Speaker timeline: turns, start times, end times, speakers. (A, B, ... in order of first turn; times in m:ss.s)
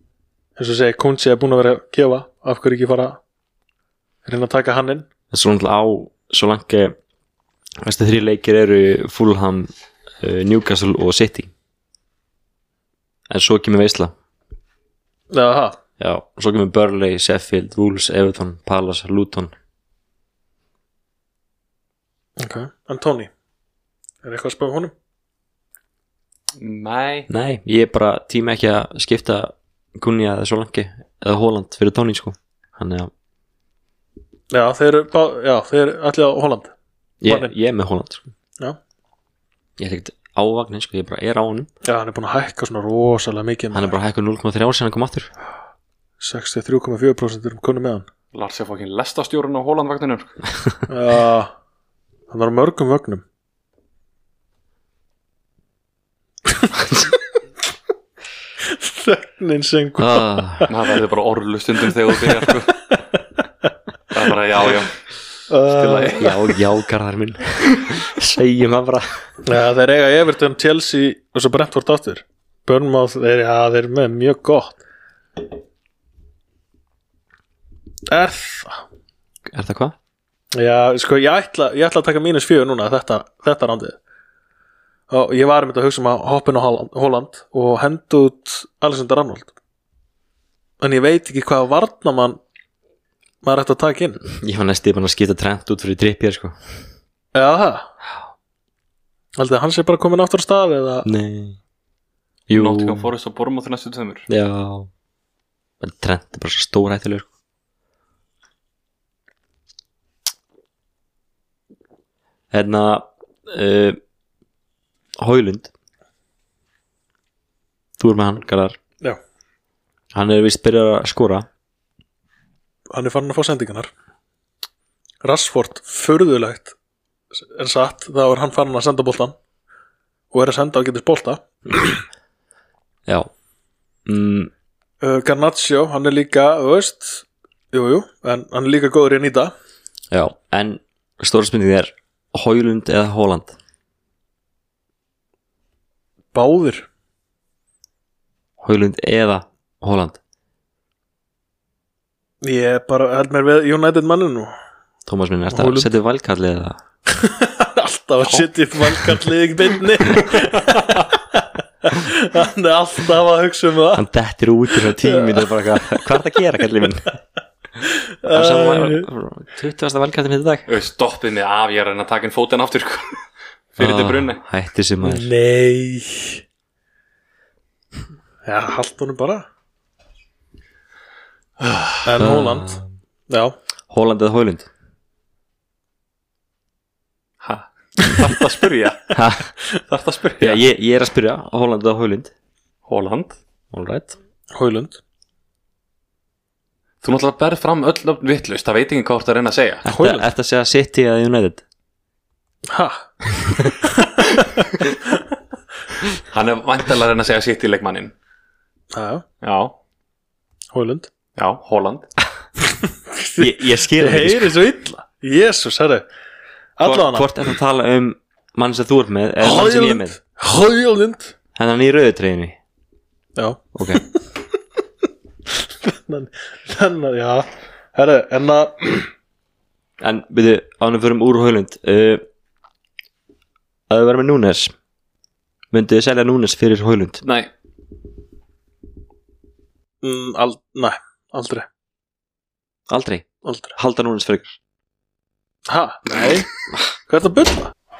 0:00.6-0:03.2 A
0:04.2-0:05.1 A
0:05.3-0:06.9 B
0:07.8-0:11.5 B
0:13.3-0:14.1 B
0:15.3-0:15.8 A
0:16.0-0:19.5 B
0:22.4-0:23.3 A
0:24.2-0:24.9 A
0:26.6-0:27.3 C
0:27.3-0:33.1 B
0:34.5-0:36.7 A
0:37.2-0:38.3 B
0:37.2-0:37.5 A
0:39.8-0:41.7 B
0:41.8-0:44.0 A
0:43.7-0:45.3 B
0:46.2-0:48.0 A
0:48.3-0:50.4 C
0:50.9-0:51.5 A
0:52.3-0:53.2 A
0:58.6-1:00.7 A
1:00.0-1:00.7 B
1:00.7-1:02.8 C
1:02.4-1:03.0 A
1:04.1-1:05.0 C
1:05.5-1:06.4 A
1:05.6-1:06.3 C
1:06.2-1:09.1 B
1:09.4-1:14.8 A
1:18.1-1:18.8 A
1:19.5-1:20.0 B
1:20.5-1:24.0 A
1:25.1-1:29.5 A
1:30.8-1:32.4 A
1:33.4-1:34.2 A
1:34.3-1:36.6 B
1:37.3-1:37.9 A
1:39.4-1:41.1 A
1:41.0-1:41.6 B
1:42.5-1:43.1 B
1:42.5-1:44.3 C
1:44.3-1:44.9 B
1:45.8-1:47.3 B
1:52.5-1:54.0 B
1:55.2-1:55.7 B
1:58.0-1:58.8 B
2:00.1-2:01.5 B
2:02.9-2:03.9 A
2:05.2-2:06.7 A
2:07.3-2:09.4 A
2:10.3-2:12.0 A
2:14.0-2:14.5 B
2:15.0-2:19.5 A
2:20.1-2:23.5 B
2:26.3-2:26.9 A
2:28.6-2:30.2 B
2:32.4-2:34.5 A
2:35.0-2:36.8 B
2:35.5-2:35.9 A
2:37.1-2:44.0 A
2:40.2-2:41.0 C
2:43.9-2:47.1 B
2:44.7-2:46.1 A
2:47.8-2:49.1 A
2:48.3-2:50.7 B
2:50.7-2:54.4 C
2:53.8-2:55.3 B
2:55.0-2:56.4 A
2:58.4-2:59.4 A
3:01.6-3:02.0 C
3:02.0-3:03.5 A
3:02.2-3:02.8 B
3:03.9-3:04.7 B
3:07.4-3:09.2 C
3:09.1-3:09.5 B
3:09.9-3:10.6 C
3:10.4-3:12.3 B
3:12.8-3:13.4 C
3:13.7-3:14.1 B
3:14.5-3:15.0 A
3:17.0-3:19.8 C
3:19.8-3:21.6 B
3:19.8-3:20.3 A
3:22.7-3:23.1 A
3:23.6-3:24.9 A
3:26.2-3:28.1 C
3:28.9-3:29.2 A
3:29.4-3:29.7 C
3:30.7-3:31.1 A
3:31.4-3:32.1 C
3:32.8-3:36.0 A
3:33.4-3:34.6 B
3:36.8-3:37.3 A
3:36.8-3:40.2 B
3:39.4-3:41.3 A
3:41.6-3:42.6 B
3:43.4-3:44.2 A
3:43.7-3:44.0 B
3:45.8-3:49.1 A
3:50.0-3:52.2 B
3:53.9-3:54.7 B
3:55.7-3:57.2 B
3:57.2-3:57.5 C
4:00.0-4:01.6 A
4:02.9-4:04.6 B
4:03.4-4:03.8 A
4:05.7-4:06.5 A
4:07.0-4:07.7 A